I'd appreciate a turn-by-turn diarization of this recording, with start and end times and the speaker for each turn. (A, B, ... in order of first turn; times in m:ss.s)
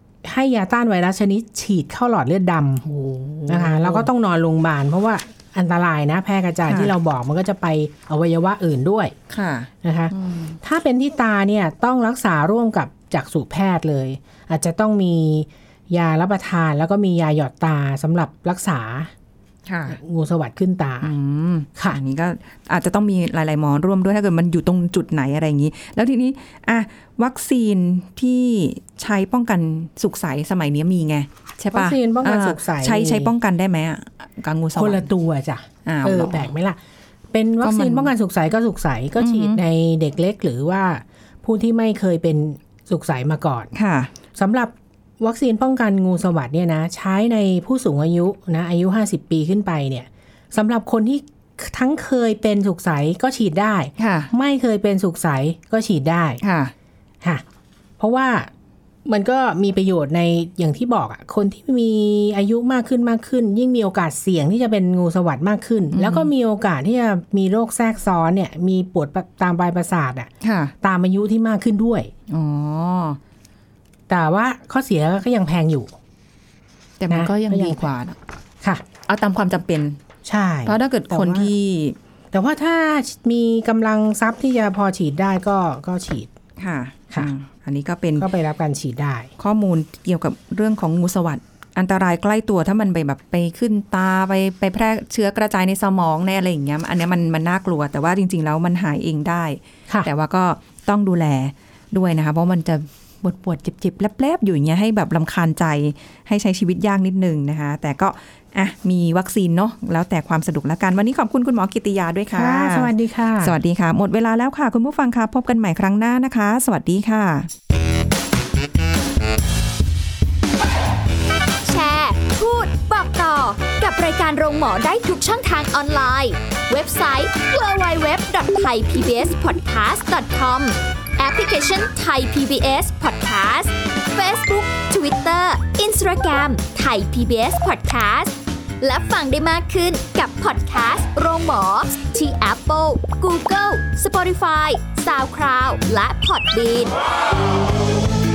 0:00.2-0:02.8 A
0:02.8-0:04.1 B
0:03.5-0:09.1 A
0:06.7-0:06.9 B
0:09.3-0:10.6 B
0:09.8-0:19.1 A
0:19.6-0:20.0 B
0:19.9-0:21.1 A
0:21.0-0:35.1 B
0:31.7-0:33.3 A
0:34.8-0:36.8 A
0:35.8-0:36.5 B
0:37.3-0:43.7 A
0:37.6-0:38.1 B
0:39.2-0:39.6 B
0:43.7-0:44.1 B
0:44.3-0:56.4 A
0:54.0-0:54.3 B
0:56.4-0:56.7 B
0:58.0-0:58.5 A
0:59.0-1:10.3 A
1:05.9-1:06.3 B
1:10.4-1:10.7 B
1:10.8-1:12.1 A
1:12.3-1:13.2 B
1:14.1-1:15.9 A
1:17.0-1:18.2 B
1:17.1-1:17.8 A
1:19.1-1:20.0 B
1:20.2-1:21.5 A
1:20.6-1:22.0 B
1:22.3-1:26.3 A
1:26.6-1:28.3 B
1:28.2-1:29.3 A
1:29.4-1:57.5 B
1:52.3-1:53.6 A
2:01.6-2:27.0 C